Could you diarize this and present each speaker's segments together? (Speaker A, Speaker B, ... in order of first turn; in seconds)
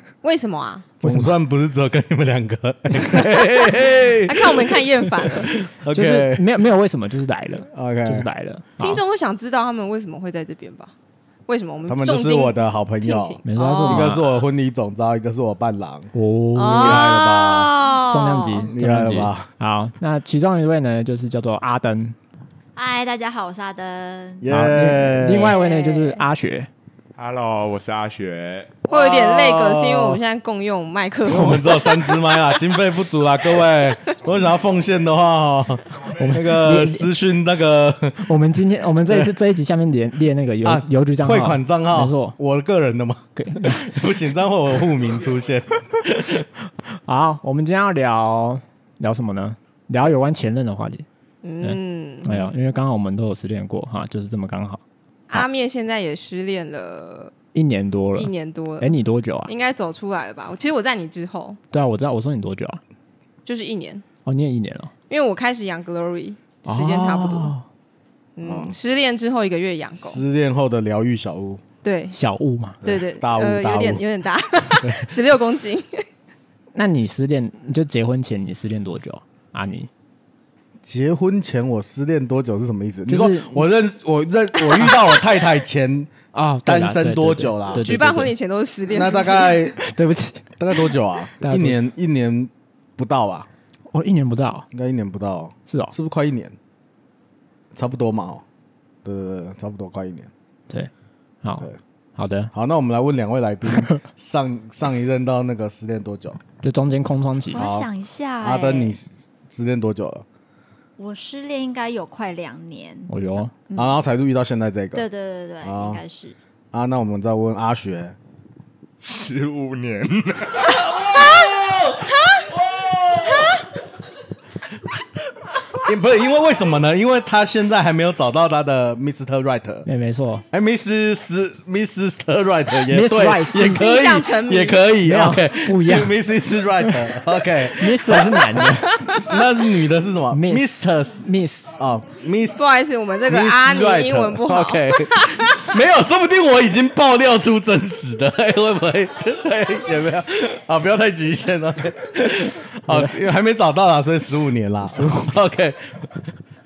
Speaker A: 0.2-0.9, 3.0-5.5, 8.8-10.9, 11.5-14.2, 16.6-18.7, 28.9-32.3, 51.4-52.5, 55.3-57.3, 58.2-59.0, 59.5-61.6, 63.5-64.0, 65.1-67.5, 68.4-70.2, 71.8-72.2, 72.8-76.0, 87.7-89.8, 133.6-134.8, 138.9-139.2, 142.6-145.7
Speaker B: 1.0-1.3, 5.9-9.0, 13.4-14.3, 16.1-17.1, 18.1-22.2, 24.5-26.7, 36.1-37.1, 38.2-42.4, 43.4-43.9, 46.9-51.1, 51.6-54.8, 57.5-59.5, 61.7-62.8, 64.2-64.9, 66.7-67.6, 72.1-72.8, 76.8-79.9, 83.1-83.7, 86.3-88.3, 89.8-91.8, 93.9-94.7, 95.7-96.0, 101.4-102.5, 103.7-104.0, 106.6-107.6, 113.1-113.5, 129.9-130.4, 132.9-133.9, 135.0-136.2, 137.7-139.2, 140.3-141.8
Speaker C: 1.0-6.5, 7.7-8.3, 11.9-16.1, 16.8-17.8, 18.7-19.5, 24.4-25.5, 28.9-30.2, 31.3-38.3, 40.6-46.5, 66.7-67.3, 68.4-68.8, 70.0-71.6, 72.8-74.0, 80.8-86.2, 86.7-87.9, 88.9-89.8, 90.6-93.5, 94.7-96.6, 97.7-98.4, 99.0-100.3, 102.5-106.4, 107.5-107.9, 108.4-110.3, 113.8-115.1, 115.6-116.0, 116.7-118.2, 120.7-123.6, 125.8-129.9, 130.5-141.2, 141.8-142.7, 143.3-156.3
Speaker D: 22.8-24.5, 25.4-26.1, 107.5-109.0, 111.0-113.1, 115.0-116.3
Speaker E: 27.2-28.9, 119.0-120.9